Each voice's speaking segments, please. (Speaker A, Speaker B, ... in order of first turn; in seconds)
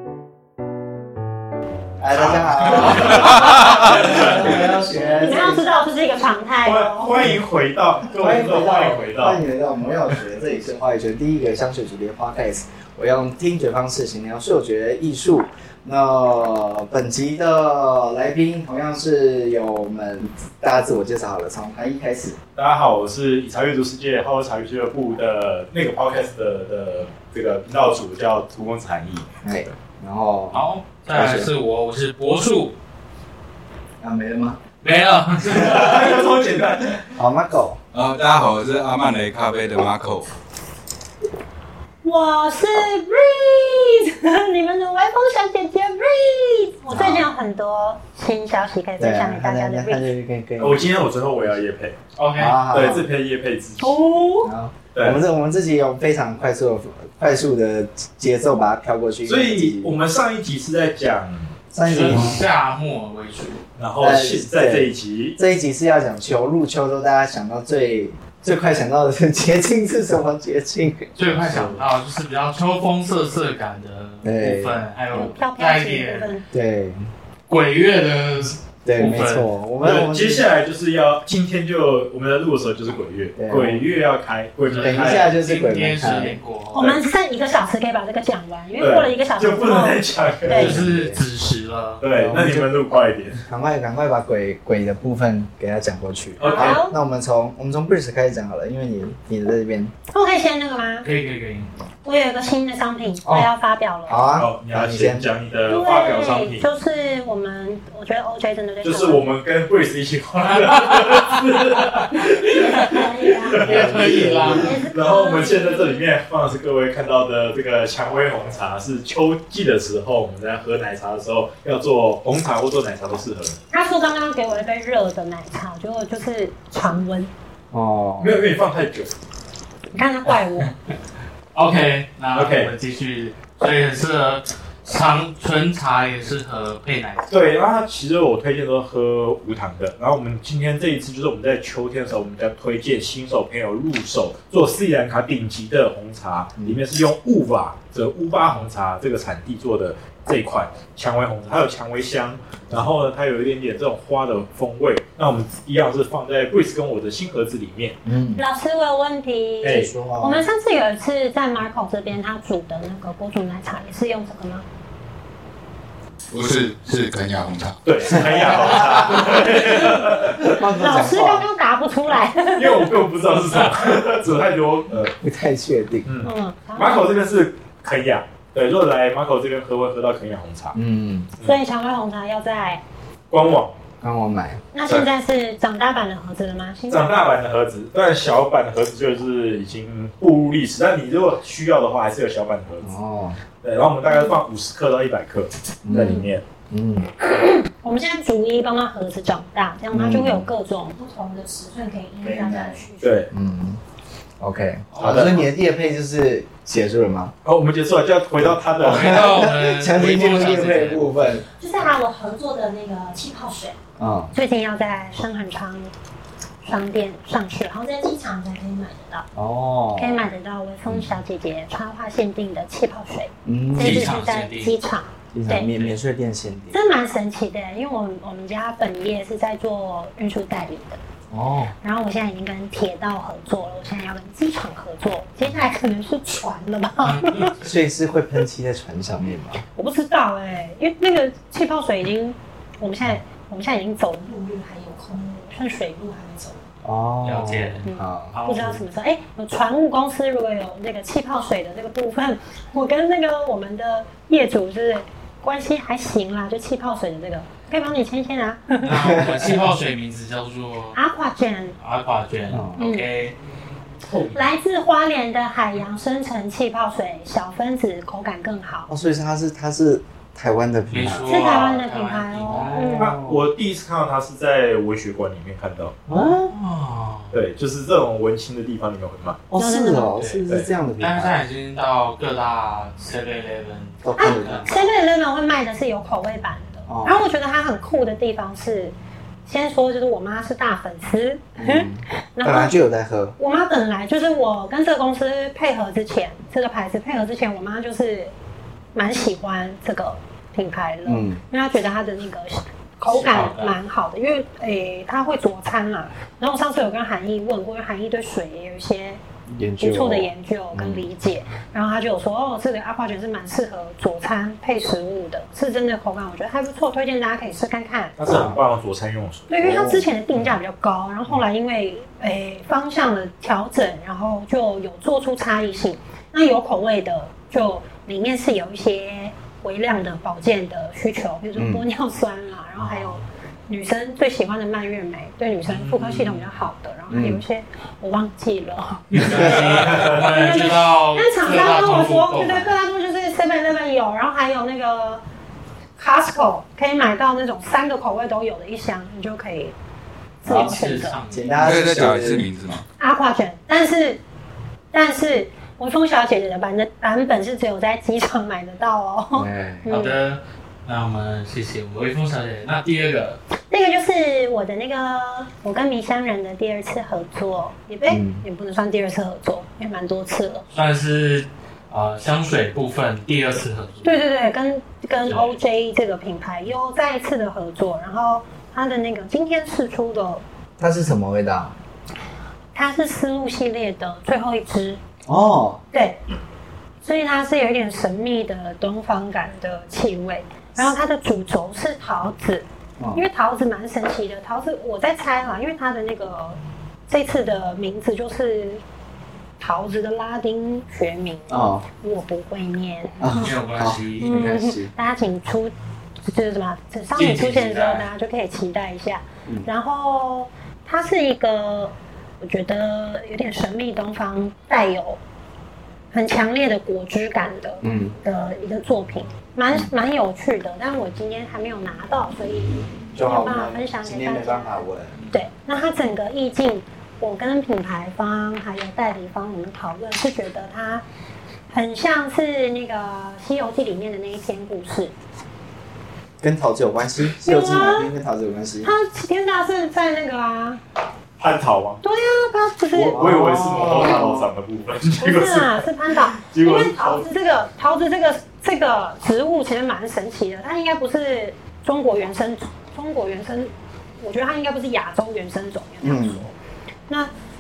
Speaker A: 2.0-5.7, 8.2-22.4, 29.4-31.5, 34.0-34.6, 37.1-37.8, 46.9-47.3, 49.0-51.1, 52.4-53.1, 54.4-60.0, 61.7-62.4, 64.0-71.8, 74.2-74.8, 76.5-77.1, 78.8-80.5, 83.4-83.8, 84.8-86.4, 90.5-91.2, 92.1-92.7, 93.4-99.9, 103.2-103.5, 104.1-105.3, 113.8-114.6, 127.7-128.5, 158.0-158.4, 159.6-160.5, 168.1-171.5, 175.2-176.1, 180.8-181.3, 184.0-184.6, 192.8-193.4, 195.8-197.2, 199.9-200.5, 202.2-203.8, 204.4-207.3, 208.8-211.4, 214.0-214.3, 219.3-220.2, 223.5-224.2, 225.3-226.8, 231.3-231.8, 237.6-239.6, 246.8-248.8, 258.9-259.7, 262.5-262.8, 268.9-271.5, 272.5-273.4, 276.1-276.5, 279.5-281.4, 284.0-284.6, 286.9-287.2, 291.6-293.4, 301.1-301.4, 309.5-311.1, 318.3-318.6, 319.6-320.6, 331.6-331.8, 337.1-337.4, 339.2-339.9, 350.4-352.5, 359.4-359.9, 368.1-368.4, 380.8-381.8, 385.3-385.8, 393.0-393.2, 401.5-401.9, 403.2-404.9, 417.8-418.2, 423.1-425.3, 436.4-438.9, 443.0-444.5, 456.0-456.4
Speaker B: 2.3-4.5, 6.6-9.4, 22.6-29.3, 35.5-37.1, 50.6-52.0, 52.7-54.0, 59.3-62.4, 63.8-65.4, 79.8-85.3, 88.8-90.8, 92.0-93.4, 96.4-96.8, 104.4-106.7, 108.8-123.6, 128.2-129.1, 132.3-132.7, 137.3-158.0, 159.6-159.9, 167.8-170.6, 172.6-175.1, 176.1-180.8, 183.3-183.7, 186.9-192.9, 193.6-196.4, 203.0-203.3, 205.0-205.4, 207.4-209.3, 264.0-264.5, 273.0-276.0, 277.3-279.5, 318.2-319.5, 339.8-340.2, 441.4-442.0, 442.9-445.8, 446.4-447.2
Speaker C: 3.2-4.0, 5.2-7.3, 42.0-50.1, 53.8-54.5, 75.1-76.5, 86.7-90.8, 96.5-96.9, 100.1-101.1, 102.0-104.3, 105.7-109.3, 112.6-116.1, 123.7-127.3, 129.9-130.7, 158.4-164.7, 170.8-173.0, 176.2-177.2, 181.4-182.8, 184.7-187.2, 194.1-194.3, 195.9-196.3, 197.4-203.2, 211.6-213.8, 214.3-215.9, 216.6-219.3, 220.0-225.7, 226.7-231.0, 231.8-237.6, 239.8-246.6, 247.9-258.9, 260.9-261.8, 262.8-263.1, 264.3-268.9, 271.3-273.2, 279.6-280.1, 284.2-288.9, 289.5-292.8, 293.4-298.3, 298.9-309.2, 309.8-318.2, 319.5-345.2, 346.0-349.7, 350.4-351.1, 353.0-354.2, 354.9-360.2, 363.7-370.7, 374.0-380.4, 382.8-385.0, 385.9-386.2, 387.0-398.8, 399.6-403.5, 404.2-405.7, 406.3-415.2, 416.1-431.0, 431.7-435.1, 437.4-438.1, 438.8-440.8, 442.0-443.3, 443.9-444.3, 445.2-456.5
Speaker D: 30.5-32.8, 34.8-36.4, 52.2-52.7, 61.8-63.6, 71.2-76.3, 77.5-79.5, 84.7-86.9, 90.5-92.0, 101.0-101.7, 110.4-113.0, 113.6-114.8, 131.5-137.5, 204.9-205.5, 208.8-211.1, 223.8-224.8, 237.0-237.6, 247.2-248.8, 258.8-261.0, 261.8-263.4, 270.9-273.0, 276.1-277.4, 280.1-284.9, 303.1-303.8, 332.8-333.2, 335.7-336.5, 339.1-342.8, 350.5-351.6, 359.9-363.4, 370.7-374.2, 375.2-375.6, 403.3-404.6, 407.1-408.1
Speaker E: 37.9-40.3, 166.3-168.2, 351.6-352.8